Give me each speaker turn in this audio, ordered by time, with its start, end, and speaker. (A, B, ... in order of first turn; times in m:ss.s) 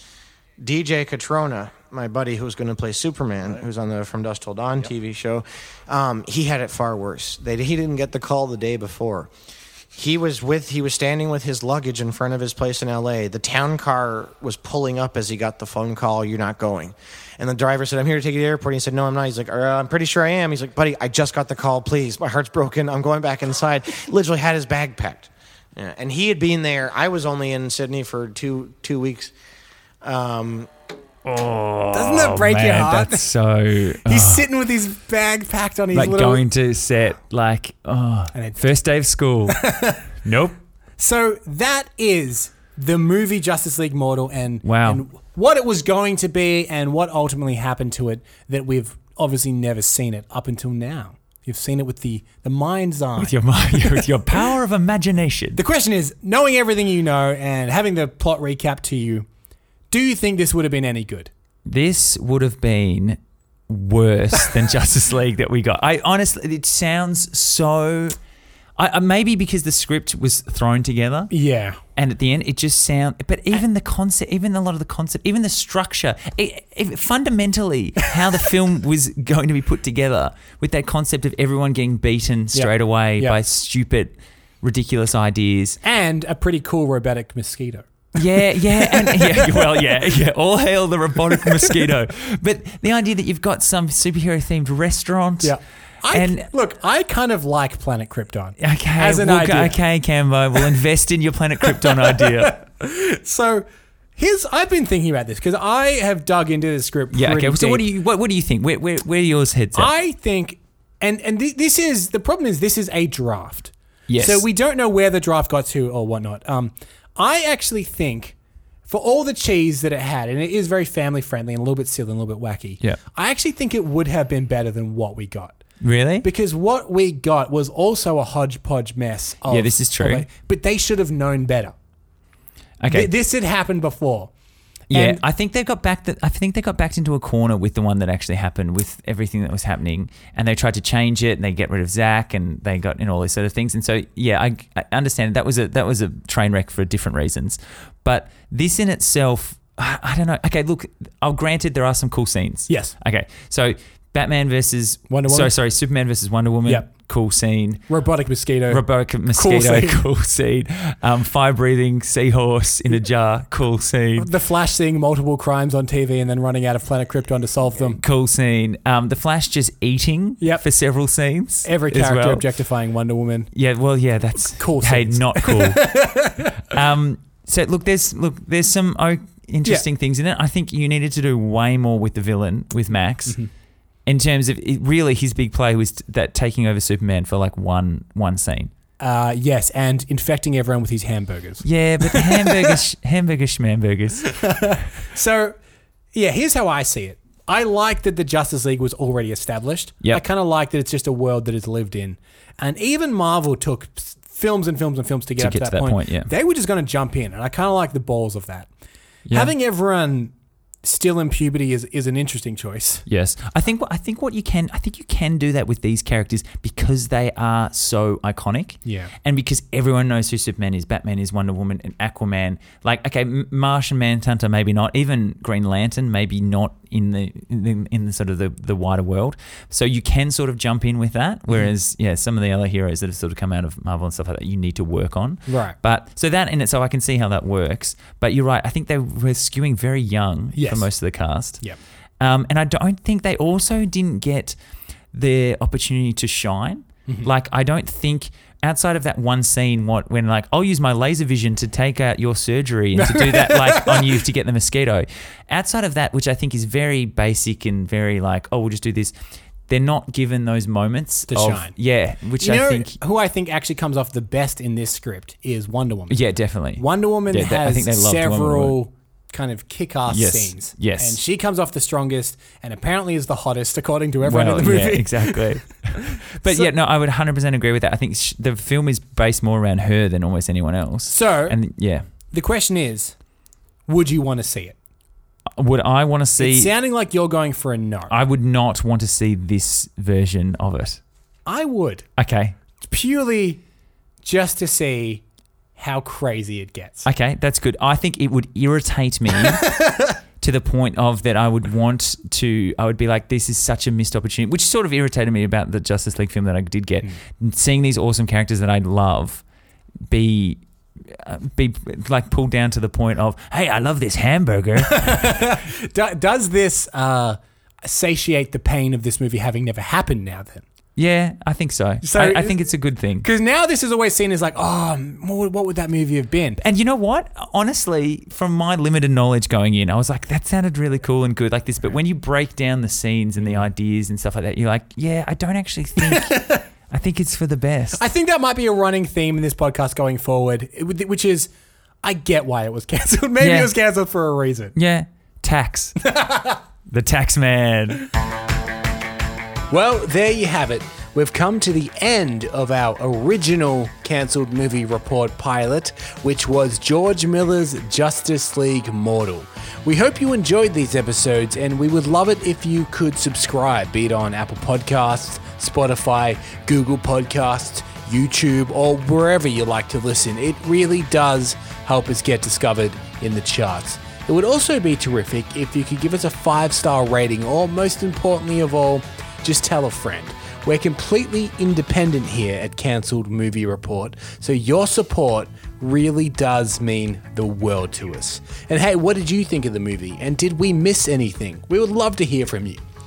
0:00.6-0:09.3 A
0:09.9-0:29.3 A
0:30.0-0:30.7 A
0:31.3-0:34.5 B
0:31.9-0:33.3 C
0:34.0-0:36.4 C
0:35.9-0:39.7 B
0:38.3-0:38.6 C
0:39.5-0:40.1 C
0:40.2-0:40.6 B
0:41.0-0:54.0 C
0:44.6-0:45.0 B
0:53.2-0:55.6 B
0:55.6-0:59.3 C
0:59.9-1:01.3 C
1:01.7-1:03.2 B
1:03.7-1:08.2 B
1:08.8-1:11.3 B
1:11.3-1:11.8 C
1:12.0-1:25.8 B
1:22.5-1:23.4 C
1:25.8-1:30.0 C
1:28.2-1:35.6 B
1:31.3-1:31.7 C
1:35.4-1:39.8 C
1:36.1-1:36.5 B
1:38.6-1:42.6 B
1:41.8-1:43.6 C
1:44.2-1:47.9 C
1:47.1-1:49.9 B
1:49.7-1:58.3 C
1:54.1-1:54.4 B
1:58.9-2:05.6 C
2:05.8-2:06.3 B
2:06.2-2:11.7 C
2:09.5-2:10.3 B
2:12.8-2:13.1 B
2:12.9-2:14.3 C
2:14.9-2:37.8 B
2:14.9-2:15.2 C
2:32.7-2:32.9 C
2:35.1-2:35.5 C
2:37.9-2:38.8 C
2:38.7-2:44.3 B
2:39.3-2:40.0 C
2:44.2-2:48.0 C
2:47.8-2:52.4 B
2:51.6-2:53.5 C
2:53.5-3:03.4 B
2:54.6-2:56.5 C
3:04.0-3:08.7 B
3:09.0-3:12.8 C
3:11.6-3:14.6 B
3:14.4-3:15.6 C
3:16.1-3:28.7 C
3:25.4-3:26.3 B
3:29.3-3:29.5 B
3:29.3-3:30.3 C
3:30.8-3:33.0 C
3:33.1-4:01.6 B
3:38.8-3:39.1 C
3:55.5-3:55.8 C
4:00.6-4:00.9 C
4:02.2-4:04.6 B
4:05.1-4:19.1 B
4:13.0-4:14.2 C
4:19.7-4:23.0 B
4:21.3-4:21.7 C
4:22.4-4:26.2 C
4:26.1-4:28.8 B
4:26.8-4:36.7 C
4:30.1-4:31.2 B
4:34.2-4:42.0 B
4:41.0-4:41.6 C
4:42.3-4:43.1 C
4:43.9-4:44.8 C
4:45.6-4:46.7 B
4:46.4-4:48.1 C
4:48.1-4:51.0 B
4:51.4-4:52.0 C
4:52.2-4:52.6 B
4:52.9-4:53.6 C
4:54.2-4:55.2 C
4:55.8-4:57.0 C
4:57.0-4:59.7 B
5:00.4-5:09.4 B
5:10.1-5:15.5 B
5:14.9-5:20.6 C
5:21.0-5:23.3 B
5:22.0-5:22.6 C
5:23.2-5:26.6 C
5:26.6-5:38.0 B
5:33.4-5:33.7 C
5:36.0-5:36.6 C
5:38.0-5:41.5 C
5:42.0-5:44.8 C
5:43.4-5:43.7 B
5:44.7-5:46.0 B
5:46.0-5:46.6 C
5:46.9-5:48.1 B
5:49.7-6:32.8 C